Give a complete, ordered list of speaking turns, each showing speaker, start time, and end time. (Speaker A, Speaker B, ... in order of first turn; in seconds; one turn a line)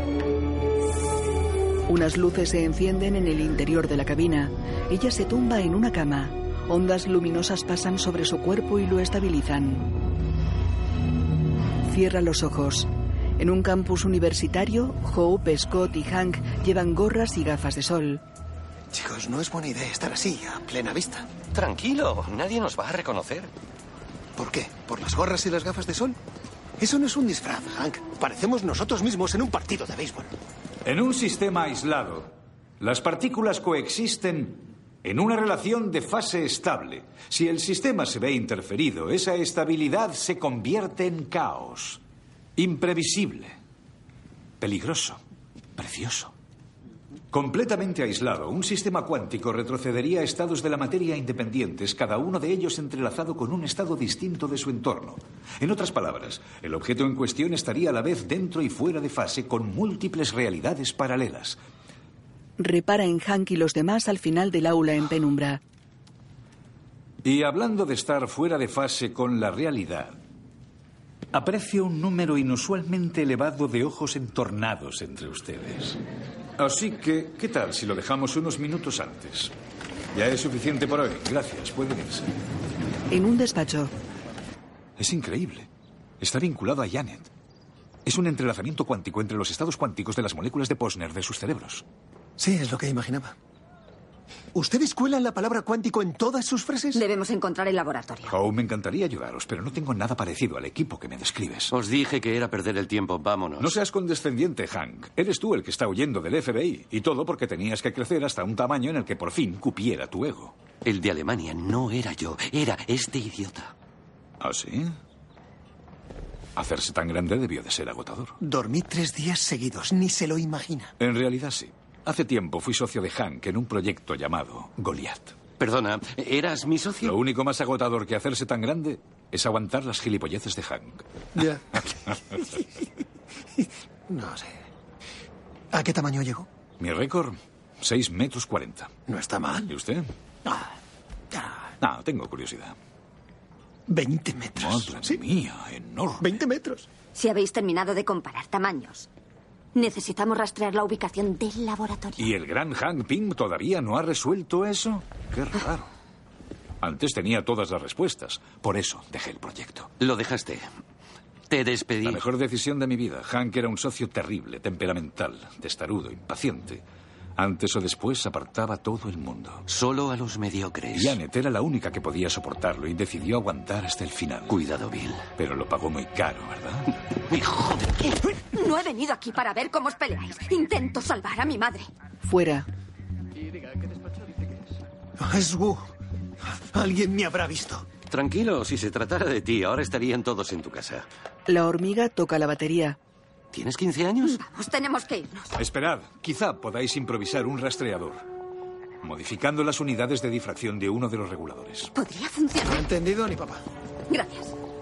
Speaker A: 1.9-9.9
Speaker A: 11.9-18.2
Speaker B: 18.9-21.3
Speaker C: 21.5-23.5
Speaker B: 24.4-26.2
Speaker B: 26.8-30.3
Speaker D: 30.9-42.0
Speaker D: 42.6-43.6
Speaker D: 44.6-45.2
Speaker D: 45.8-46.3
Speaker D: 47.3-61.6
Speaker A: 62.6-65.6
Speaker D: 67.2-70.2
Speaker D: 71.3-76.0
Speaker D: 76.6-79.5
Speaker D: 80.1-82.3
Speaker A: 83.1-83.9
Speaker D: 85.0-85.7
Speaker D: 86.2-87.3
Speaker D: 88.0-91.8
Speaker B: 92.4-93.3
Speaker B: 94.5-97.0
Speaker E: 96.9-98.3
Speaker D: 98.3-101.7
Speaker C: 101.7-103.8
Speaker D: 103.6-110.5
Speaker C: 110.8-113.7
Speaker D: 114.4-114.9
Speaker D: 116.5-118.3
Speaker B: 118.4-120.9
Speaker D: 121.0-125.3
Speaker C: 125.6-127.2
Speaker D: 127.0-131.0
Speaker B: 131.3-131.6
Speaker B: 133.6-134.6
Speaker B: 135.7-136.5
Speaker D: 136.8-138.9
Speaker B: 139.1-139.7
Speaker D: 139.7-140.1
Speaker B: 141.3-141.6
Speaker D: 141.8-142.7
Speaker B: 143.9-145.2
Speaker D: 144.6-146.3
Speaker B: 146.2-146.9
Speaker E: 147.1-149.1
Speaker E: 149.7-152.3
Speaker D: 152.2-155.9
Speaker D: 156.8-159.9
Speaker C: 160.0-160.7
Speaker C: 161.5-162.2
Speaker D: 162.0-166.8
Speaker D: 167.4-169.6
Speaker C: 169.7-171.2
Speaker D: 170.9-174.6
Speaker C: 174.5-175.2
Speaker D: 175.3-176.9
Speaker C: 177.3-178.2
Speaker E: 178.5-181.9
Speaker A: 182.2-182.7
Speaker B: 185.2-185.9
Speaker B: 186.4-187.8
Speaker C: 188.1-191.1
Speaker A: 191.5-193.0
Speaker C: 193.5-194.4
Speaker E: 194.2-195.5
Speaker D: 195.6-198.2
Speaker D: 199.0-201.9
Speaker E: 201.9-202.8
Speaker B: 202.6-203.6
Speaker E: 204.1-204.5